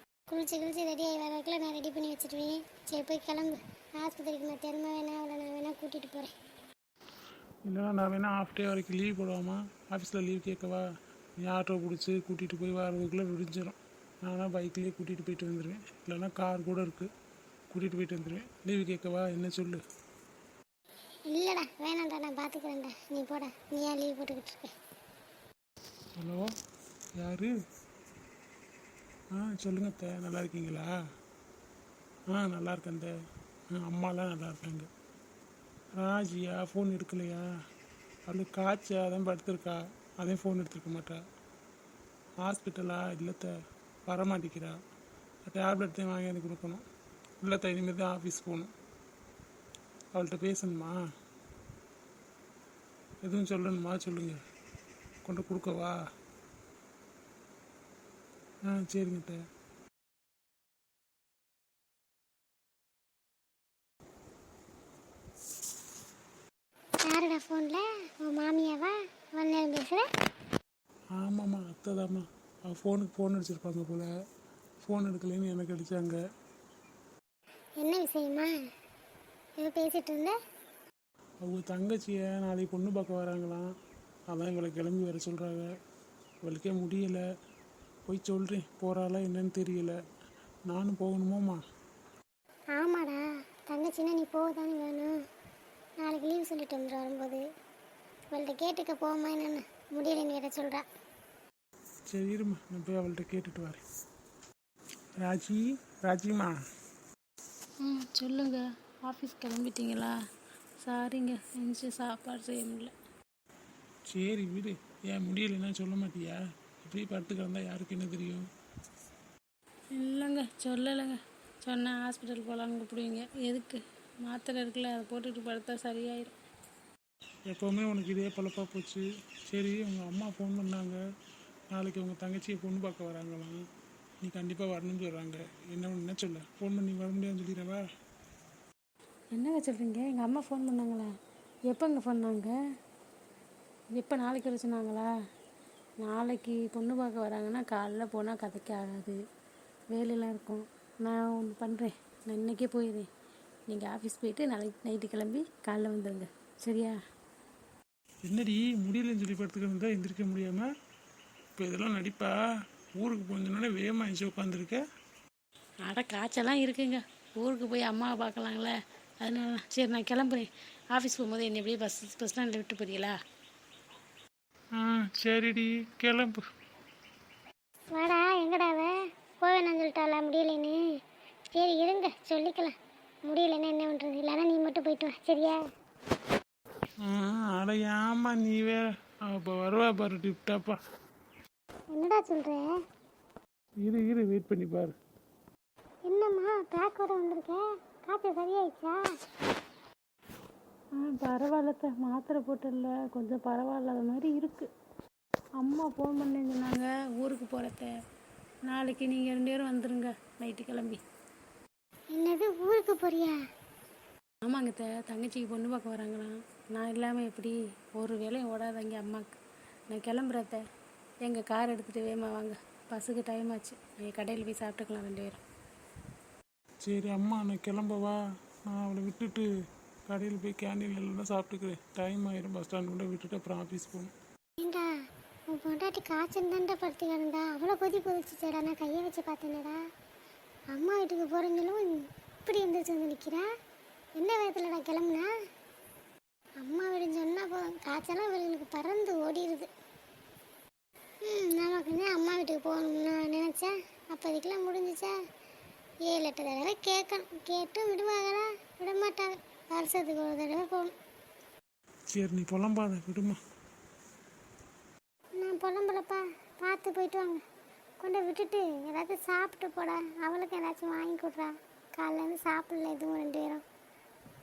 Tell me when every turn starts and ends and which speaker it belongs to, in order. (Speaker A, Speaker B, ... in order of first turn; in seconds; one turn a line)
Speaker A: 0.3-6.3
Speaker B: 7.7-10.8
Speaker B: 11.4-17.1
Speaker B: 17.7-19.8
Speaker A: 21.3-24.7
Speaker B: 26.2-26.5
Speaker B: 27.2-27.5
Speaker B: 29.3-30.9
Speaker B: 32.3-33.1
Speaker B: 33.8-34.9
Speaker B: 36.0-37.4
Speaker B: 38.3-41.2
Speaker B: 42.4-43.5
Speaker B: 44.1-44.8
Speaker B: 45.5-46.8
Speaker B: 47.4-48.7
Speaker B: 50.1-51.0
Speaker B: 53.2-54.4
Speaker B: 55.2-56.0
Speaker B: 58.7-59.4
Speaker A: 67.1-70.0
Speaker B: 71.2-74.1
Speaker B: 74.8-76.2
Speaker A: 77.8-78.5
Speaker A: 79.6-80.3
Speaker B: 81.4-83.7
Speaker B: 84.3-85.7
Speaker B: 86.5-87.2
Speaker B: 88.1-90.0
Speaker B: 90.7-91.6
Speaker A: 92.8-95.1
Speaker A: 96.0-97.4
Speaker A: 98.3-100.8
Speaker B: 102.1-103.8
Speaker B: 105.2-106.5
Speaker C: 107.8-110.1
Speaker C: 110.8-112.9
Speaker B: 114.1-118.4
Speaker C: 120.0-126.3
Speaker B: 127.5-131.0
Speaker B: 131.7-133.6
Speaker B: 134.2-137.8
Speaker C: 139.3-141.1
Speaker C: 141.7-142.5
Speaker C: 143.9-145.1
Speaker C: 146.0-149.2
Speaker C: 149.9-153.1
Speaker C: 153.7-157.0
Speaker B: 158.3-160.7
Speaker B: 161.6-162.3
Speaker B: 163.0-164.8
Speaker C: 165.8-173.2
Speaker B: 174.8-176.4
Speaker A: 177.9-178.9
Speaker A: 179.4-180.8
Speaker A: 181.5-182.8
Speaker A: 183.3-185.6
Speaker B: 187.1-190.8
Speaker A: 191.9-192.7
Speaker B: 193.8-194.9
Speaker A: 196.1-199.0
Speaker C: 201.0-204.7
Speaker C: 205.6-207.9
Speaker C: 208.7-211.0
Speaker A: 212.1-213.4
Speaker C: 214.4-219.4
Speaker C: 219.9-220.6
Speaker C: 221.2-225.4
Speaker B: 226.8-229.5
Speaker B: 230.1-234.1
Speaker A: 234.6-234.9
Speaker A: 235.5-239.8
Speaker A: 240.7-243.4
Speaker A: 244.2-245.3
Speaker A: 246.6-249.7
Speaker A: 251.2-255.1
Speaker A: 256.1-260.9
Speaker B: 262.1-263.4
Speaker A: 265.4-267.4
Speaker A: 268.0-273.6